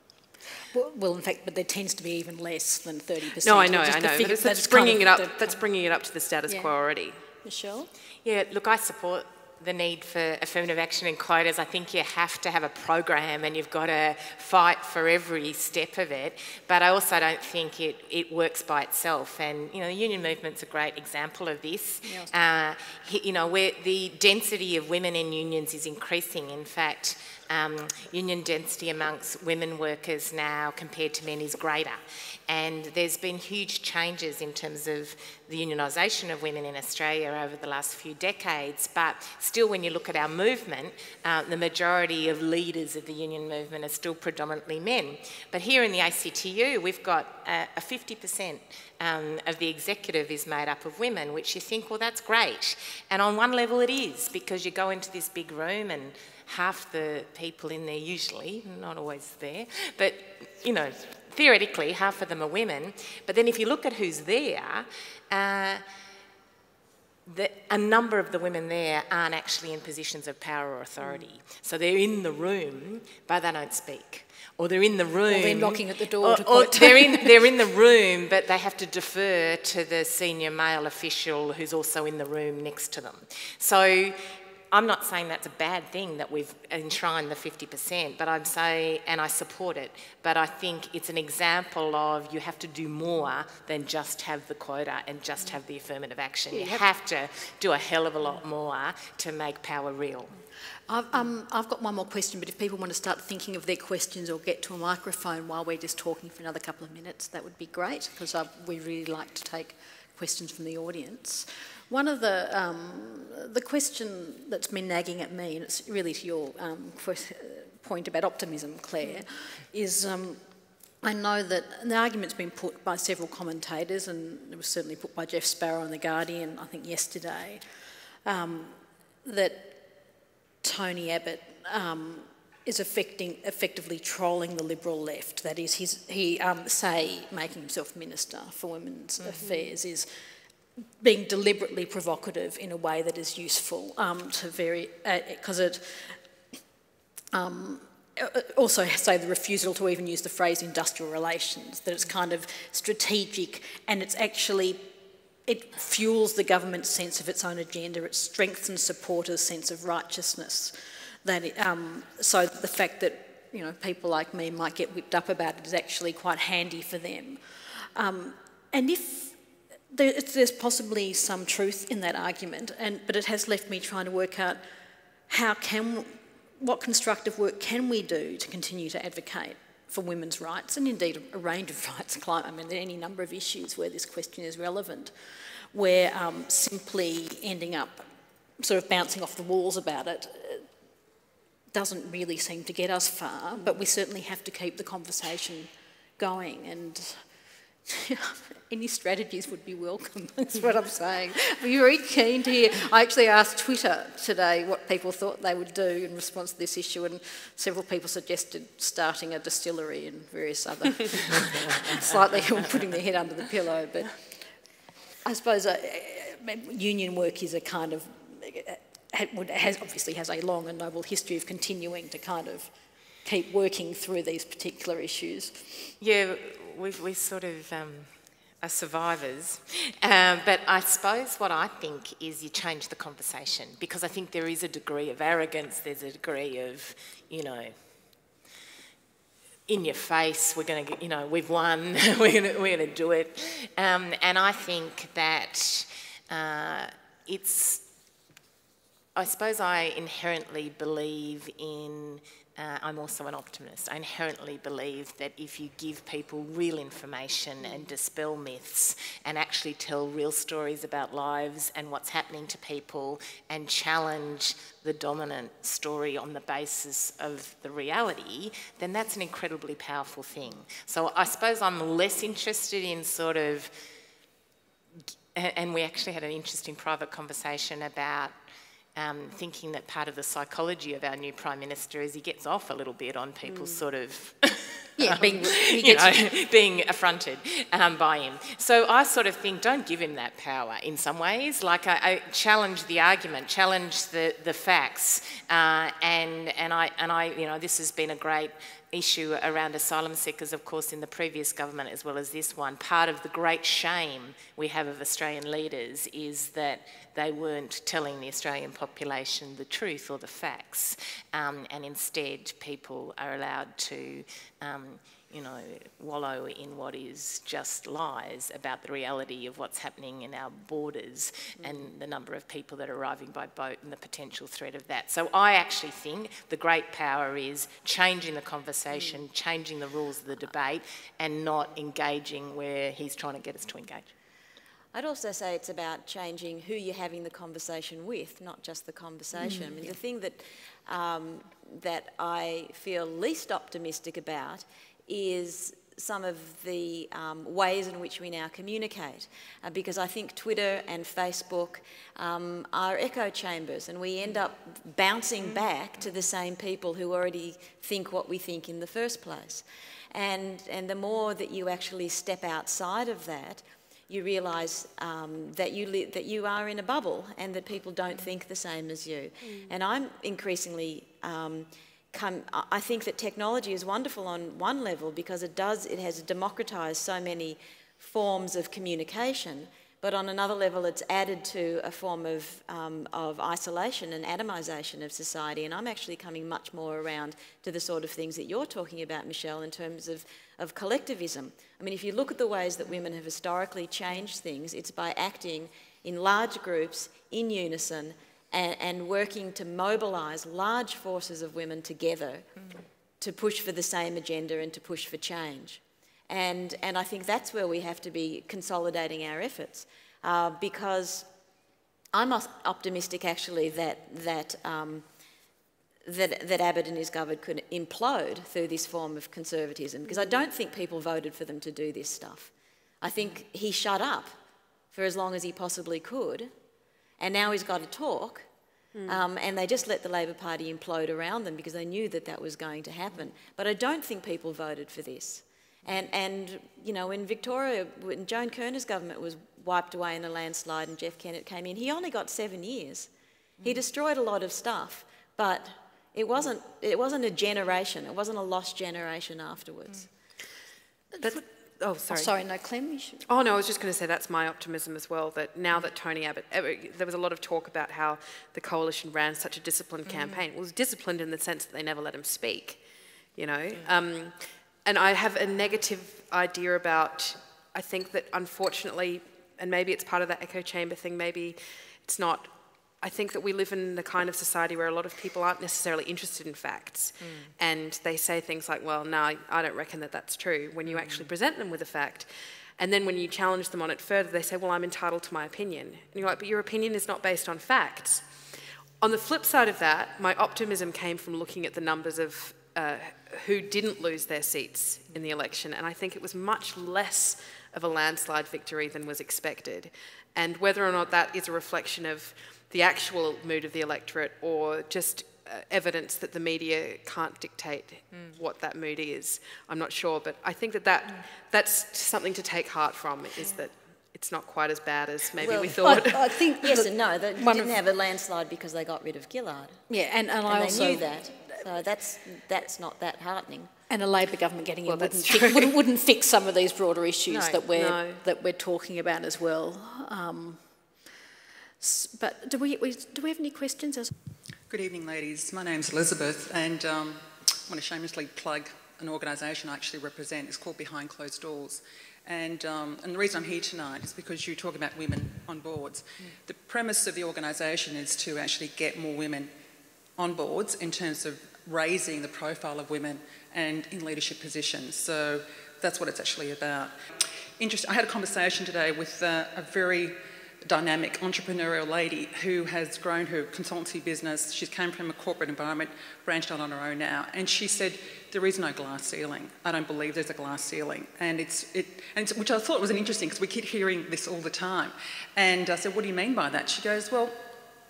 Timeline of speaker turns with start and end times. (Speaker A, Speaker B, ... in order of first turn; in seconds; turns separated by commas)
Speaker A: 0.7-5.6, Speaker B: 3.4-7.2, Speaker A: 6.5-6.7, Speaker A: 7.4-7.9, Speaker C: 8.2-65.8, Speaker A: 22.0-22.3, Speaker C: 67.2-100.4, Speaker A: 75.3-77.3, Speaker A: 96.5-96.8, Speaker A: 100.9-120.4, Speaker A: 121.0-127.6, Speaker A: 128.2-129.8, Speaker A: 130.6-140.1, Speaker B: 139.4-139.7, Speaker A: 141.0-146.2, Speaker A: 147.3-154.9, Speaker A: 155.4-169.3, Speaker A: 169.9-174.6, Speaker A: 175.3-185.1, Speaker A: 185.7-188.1, Speaker A: 188.6-190.7, Speaker A: 191.7-197.2, Speaker A: 197.9-214.3, Speaker A: 215.2-222.7, Speaker A: 223.2-225.9, Speaker C: 226.0-228.1, Speaker C: 228.6-237.7, Speaker C: 239.7-247.8, Speaker C: 249.1-273.7, Speaker C: 275.3-278.3, Speaker C: 278.9-334.1, Speaker B: 283.4-283.8, Speaker A: 285.0-286.2, Speaker D: 334.9-402.5, Speaker B: 369.4-369.7, Speaker D: 403.2-411.3, Speaker D: 412.1-415.1, Speaker D: 416.0-424.4, Speaker D: 424.9-426.5, Speaker D: 427.2-428.5, Speaker B: 428.9-429.2, Speaker D: 429.1-443.1, Speaker D: 443.6-450.1, Speaker A: 451.1-451.4, Speaker B: 451.2-452.3, Speaker A: 452.1-453.2, Speaker B: 453.3-462.8, Speaker B: 463.4-488.3, Speaker C: 477.2-477.5, Speaker C: 480.9-481.3, Speaker B: 489.0-516.3, Speaker D: 515.4-516.1, Speaker A: 515.8-517.8, Speaker D: 516.6-519.8, Speaker A: 519.9-521.1, Speaker D: 520.5-523.7, Speaker A: 523.9-530.6, Speaker B: 524.9-525.8, Speaker B: 527.3-528.2, Speaker A: 531.8-534.1, Speaker E: 534.7-549.5, Speaker E: 550.2-557.0, Speaker E: 557.6-577.5